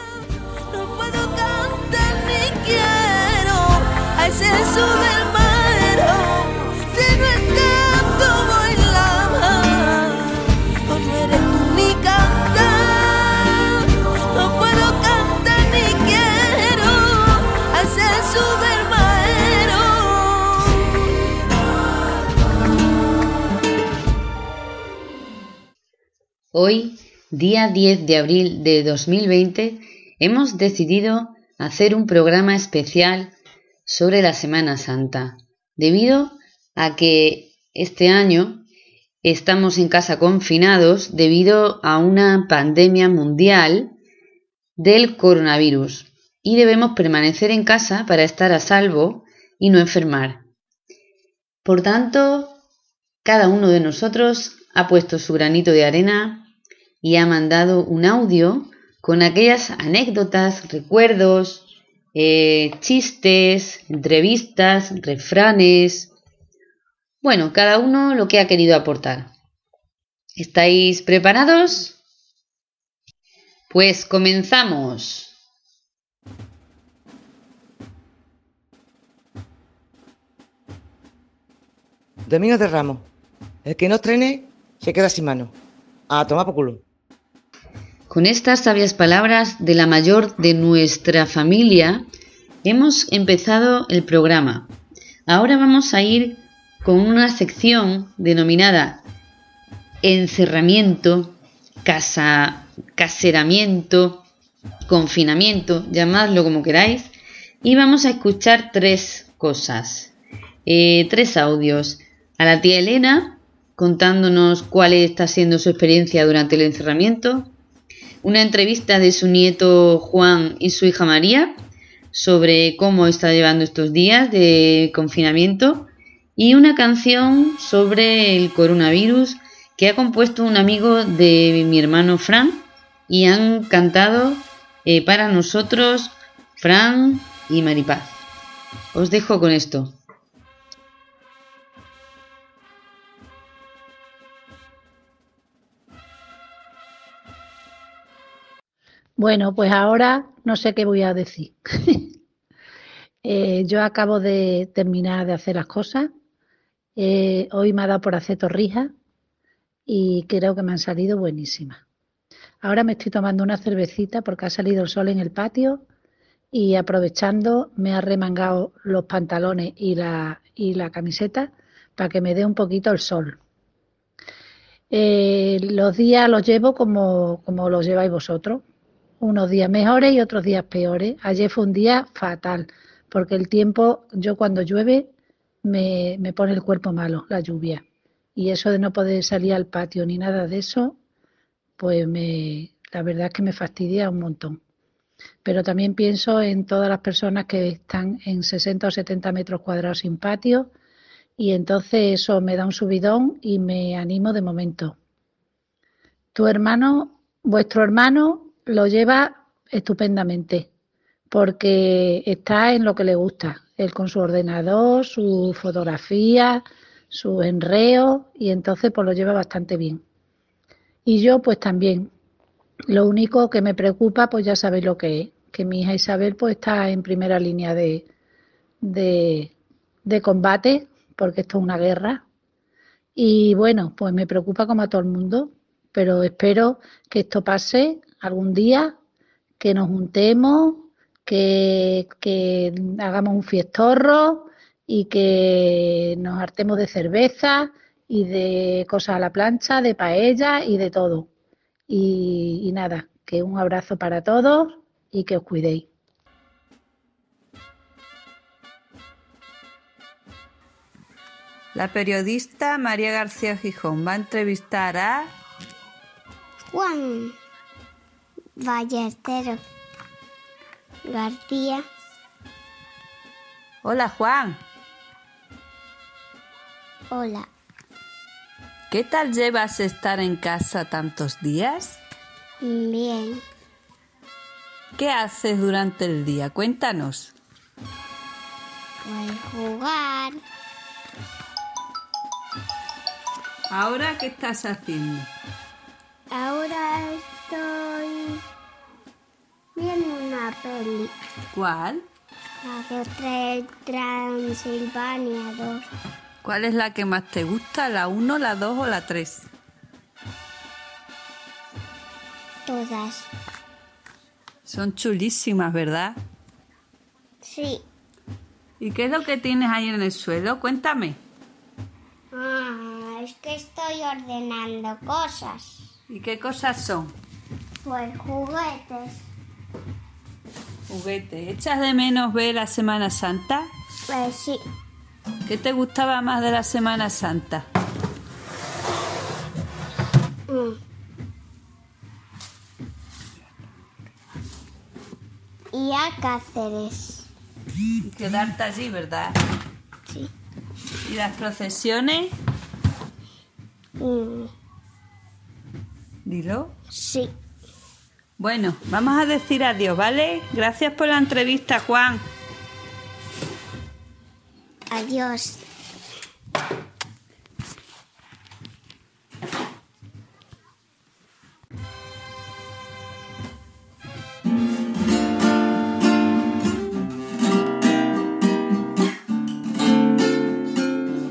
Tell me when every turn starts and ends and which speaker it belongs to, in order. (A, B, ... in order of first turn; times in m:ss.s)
0:00.6-0:20.7 A
0:26.5-0:33.3 B
0:33.8-0:38.6 B
0:39.2-0:43.9 B
0:44.8-0:50.4 B
0:51.6-0:52.6 B
0:53.2-0:56.5 B
0:57.0-1:06.1 B
1:07.2-1:09.3 B
1:10.4-1:12.0 B
1:13.7-1:15.3 B
1:22.2-1:23.1 C
1:23.6-1:25.5 C
1:26.1-1:26.8 C
1:28.1-1:32.0 B
1:32.6-1:34.7 B
1:35.3-1:39.0 B
1:40.0-1:44.2 B
1:44.9-1:47.1 B
1:47.6-1:50.1 B
1:50.6-1:57.5 B
1:58.2-2:01.6 B
2:02.1-2:18.1 B
2:18.9-2:20.0 B
2:29.2-2:32.1 D
2:33.2-2:36.1 D
2:37.0-2:38.9 D
2:39.9-2:41.8 D
2:42.6-2:45.8 D
2:46.5-2:53.4 D
2:54.9-2:58.6 D
2:59.2-3:05.1 D
3:05.6-3:07.8 D
3:08.4-3:11.0 D
3:11.8-3:14.6 D
3:15.4-3:20.7 D
3:21.4-3:25.0 D
3:26.3-3:30.7 D
3:31.3-3:40.0 D
3:41.0-3:42.1 D
3:42.9-3:48.1 D
3:48.8-3:49.5 D
3:50.0-3:52.2 D
3:53.2-3:59.0 D
3:59.6-4:11.3 D
4:11.9-4:15.9 D
4:21.7-4:25.3 E
4:26.7-4:27.4 F
4:28.6-4:29.6 F
4:31.0-4:31.8 F
4:33.8-4:34.6 E
4:37.1-4:37.5 F
4:38.9-4:42.0 E
4:42.6-4:43.4 F
4:45.0-4:47.3 E
4:49.0-4:50.4 F
4:53.7-4:55.3 E
4:56.3-4:58.4 F
4:59.8-5:01.2 F
5:01.5-5:02.0 E
5:02.6-5:05.8 F
5:06.4-5:09.5 E
5:12.6-5:13.3 F
5:14.6-5:16.2 E
5:17.4-5:17.8 F
5:18.8-5:21.2 E
5:22.3-5:25.8 F
5:26.1-5:27.1 E
5:27.8-5:29.2 F
5:30.9-5:33.7 E
5:34.1-5:34.6 F
5:35.4-5:37.6 E
5:40.5-5:40.8 F
5:45.7-5:47.3 F
5:48.0-5:49.4 E
5:51.1-5:52.3 E
5:54.0-5:54.5 F
5:56.2-5:56.7 E
5:56.9-5:57.3 F
5:58.4-6:02.2 E
6:04.9-6:05.6 F